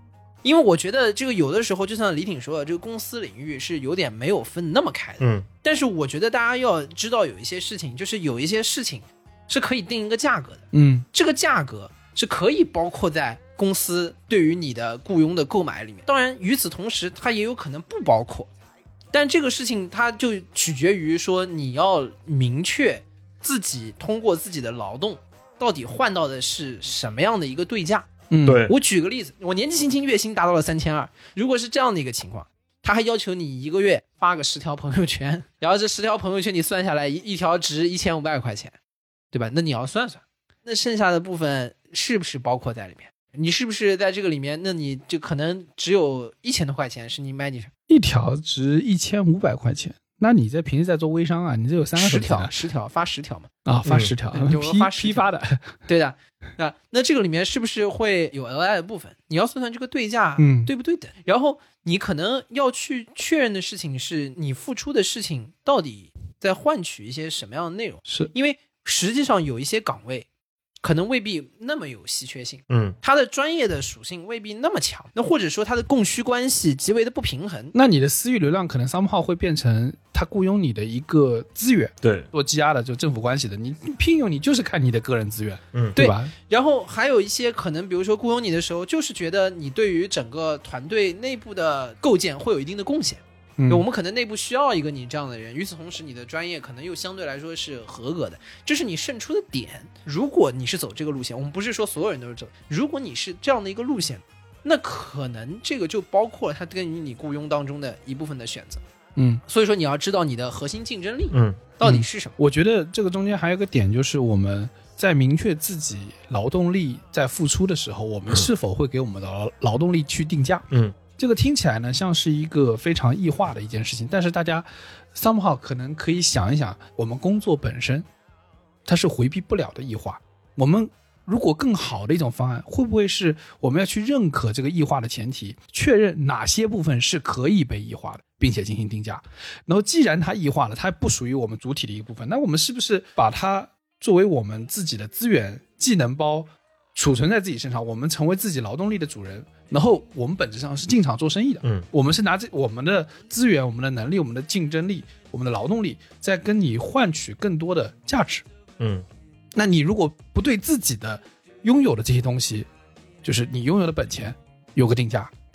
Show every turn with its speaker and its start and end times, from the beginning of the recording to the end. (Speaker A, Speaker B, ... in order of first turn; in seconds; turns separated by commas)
Speaker A: 0.4-18.5, Speaker B: 5.2-5.5, Speaker C: 10.7-11.1, Speaker A: 19.1-28.1, Speaker C: 28.3-28.6, Speaker B: 28.4-28.8, Speaker A: 28.6-38.7, Speaker A: 39.3-47.7, Speaker C: 47.9-52.5, Speaker A: 52.0-53.5, Speaker C: 53.6-55.7, Speaker B: 53.9-54.1, Speaker A: 54.3-55.2, Speaker A: 55.9-70.3, Speaker C: 60.4-60.7, Speaker A: 70.8-77.7, Speaker B: 72.7-73.0, Speaker C: 77.7-86.3, Speaker B: 82.0-82.3, Speaker A: 86.0-108.8, Speaker C: 93.6-93.8, Speaker C: 109.2-109.4, Speaker A: 109.5-112.3, Speaker B: 111.3-111.7, Speaker C: 111.8-128.1, Speaker B: 120.7-121.0, Speaker C: 128.8-158.4, Speaker B: 158.8-159.1, Speaker C: 159.5-162.7, Speaker C: 163.2-165.3